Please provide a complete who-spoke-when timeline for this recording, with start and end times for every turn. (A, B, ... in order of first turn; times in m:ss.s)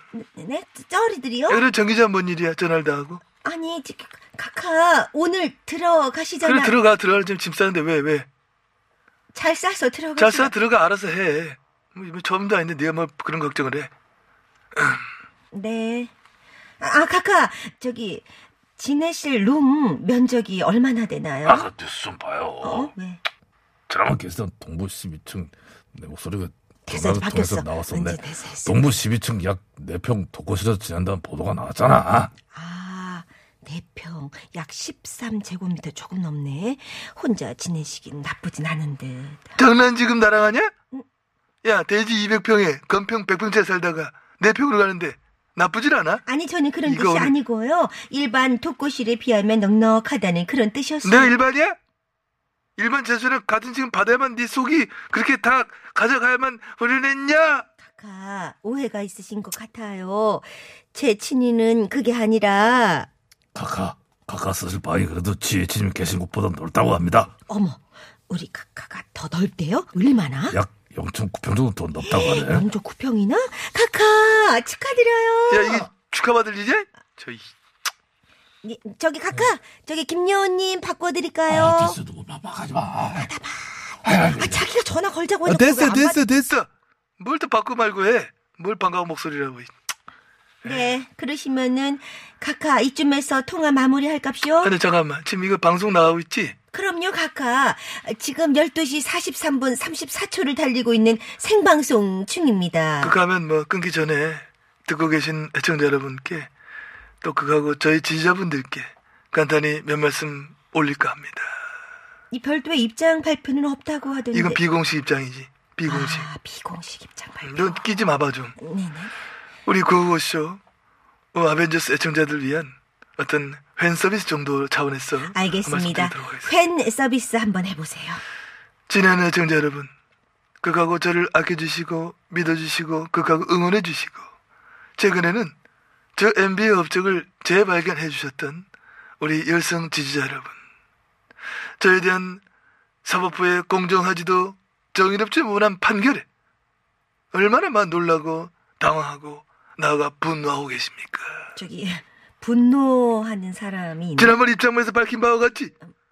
0:00.1-0:01.6 A
0:01.5-0:03.2 B
0:03.4-0:06.7 A
0:06.4-0:08.3 B
0:09.3-0:10.5 A
0:10.2-0:13.9 B
0:15.5-0:16.1 A
0:16.8-0:18.2 A
0:18.8-0:21.7 A
0:21.4-0:22.9 C
0:22.6-0:23.2 A
0:23.9-0:32.3 C
0:26.9-0:28.8 A
0:32.5-0:39.5 A
0:39.6-0:40.7 B
0:41.6-0:46.2 B
0:46.2-0:51.4 A
0:46.8-0:47.3 B
0:51.0-0:51.8 B
0:52.8-0:57.6 B
0:57.8-1:03.1 A
1:03.5-1:07.3 C
1:07.5-1:10.6 A
1:10.5-1:12.6 C
1:12.0-1:15.9 A
1:15.5-1:17.5 B
1:18.6-1:22.0 A
1:21.5-1:23.3 C
1:23.1-1:26.2 A
1:24.0-1:24.6 C
1:25.4-1:29.7 B
1:30.6-1:34.7 A
1:34.6-1:36.6 B
1:36.7-1:43.1 A
1:43.0-1:46.5 B
1:47.2-1:51.5 B
1:52.3-1:54.6 A
1:54.3-1:56.3 B
1:55.8-1:57.8 A
1:57.4-1:58.5 B
1:58.6-1:59.1 A
1:59.6-2:00.6 B
2:01.3-2:06.5 B
2:05.3-2:08.2 A
2:08.9-2:09.9 B
2:10.6-2:14.2 B
2:15.0-2:15.5 B
2:16.2-2:18.7 B
2:19.2-2:20.6 B
2:21.8-2:22.4 B
2:23.0-2:26.2 B
2:27.3-2:31.5 B
2:31.6-2:34.4 A
2:34.2-2:35.7 B